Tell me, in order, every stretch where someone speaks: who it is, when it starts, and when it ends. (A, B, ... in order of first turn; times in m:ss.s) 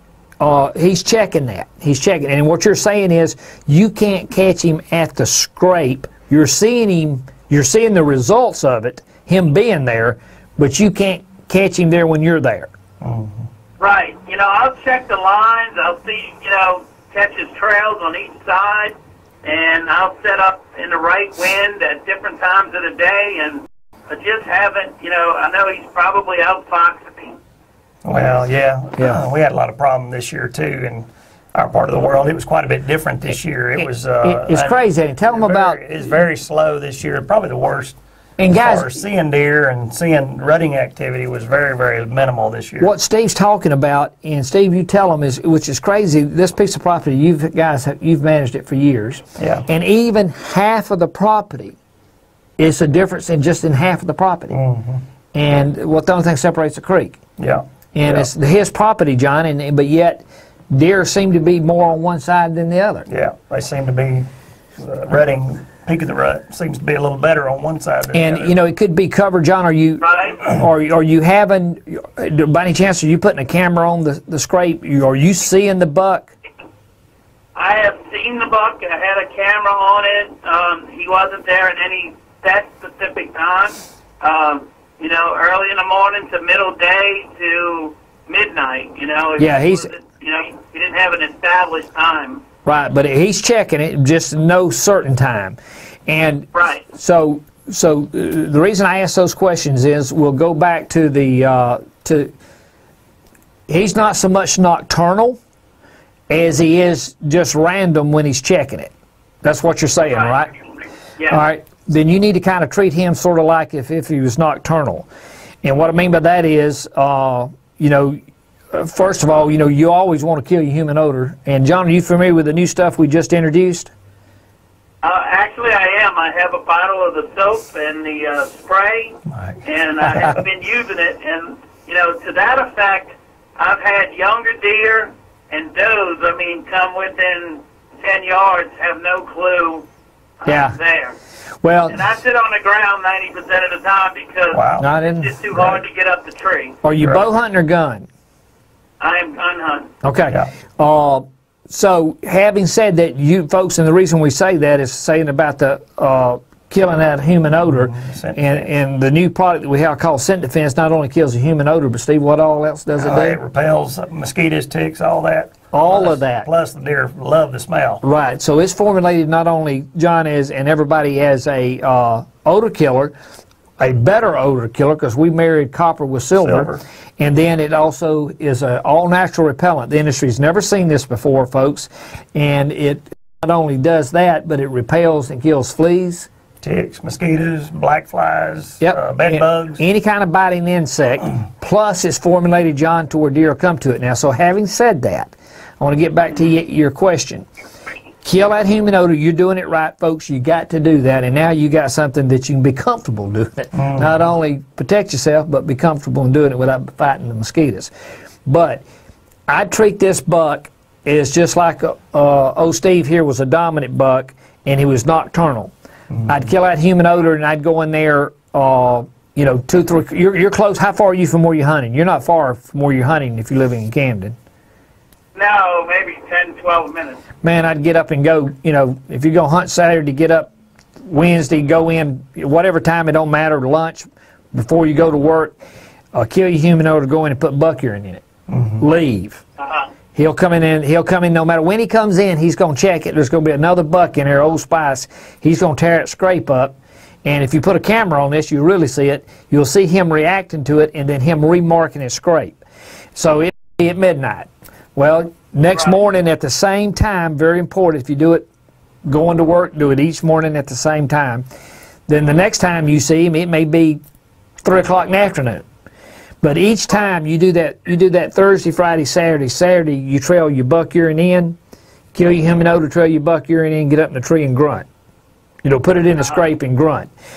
0:00.4-0:12.7 A
0:13.0-0:13.5 B
0:13.8-0:27.4 C
0:28.0-0:34.8 B
0:29.0-0:29.2 A
0:33.8-0:36.0 A
0:35.3-0:42.9 B
0:38.4-0:38.9 A
0:42.8-0:51.8 A
0:49.4-0:49.7 B
0:52.6-0:54.6 A
0:54.5-0:55.0 B
0:55.3-0:57.2 A
0:57.4-0:58.3 B
0:57.9-1:03.1 A
1:03.1-1:08.6 B
1:08.1-1:16.3 A
1:10.0-1:10.4 C
1:17.6-1:32.4 C
1:29.4-1:29.9 A
1:32.6-1:42.3 A
1:36.5-1:36.8 C
1:43.7-1:45.4 A
1:46.3-1:50.5 A
1:51.3-1:55.1 A
1:55.6-1:58.2 A
1:58.7-2:03.9 A
2:05.0-2:19.8 C
2:20.4-2:21.2 C
2:20.5-2:20.8 A
2:21.6-2:22.0 A
2:21.9-2:26.8 C
2:24.5-2:24.8 B
2:24.8-2:25.4 A
2:25.5-2:25.8 B
2:26.8-2:28.1 A
2:29.0-2:29.9 C
2:30.0-2:43.4 A
2:37.8-2:38.6 B
2:43.0-2:48.0 B
2:45.7-2:46.5 A
2:48.0-2:53.2 A
2:53.8-3:06.3 A
2:56.4-2:56.8 B
3:06.6-3:09.8 B
3:08.8-3:17.5 A
3:18.2-3:27.9 A
3:23.7-3:24.1 B
3:28.5-3:28.8 A
3:29.5-3:35.7 A
3:36.3-3:44.4 A
3:45.4-3:47.2 C
3:47.4-3:50.5 A
3:51.0-3:55.6 A
3:56.1-3:58.2 A
3:58.5-3:58.8 B
3:58.8-3:59.4 A
3:59.6-3:59.9 C
4:00.1-4:12.6 A
4:13.2-4:18.5 A
4:19.0-4:21.4 A
4:22.1-4:24.0 A
4:24.6-4:25.6 A
4:26.4-4:31.6 A
4:32.1-4:34.9 A
4:35.6-4:37.1 A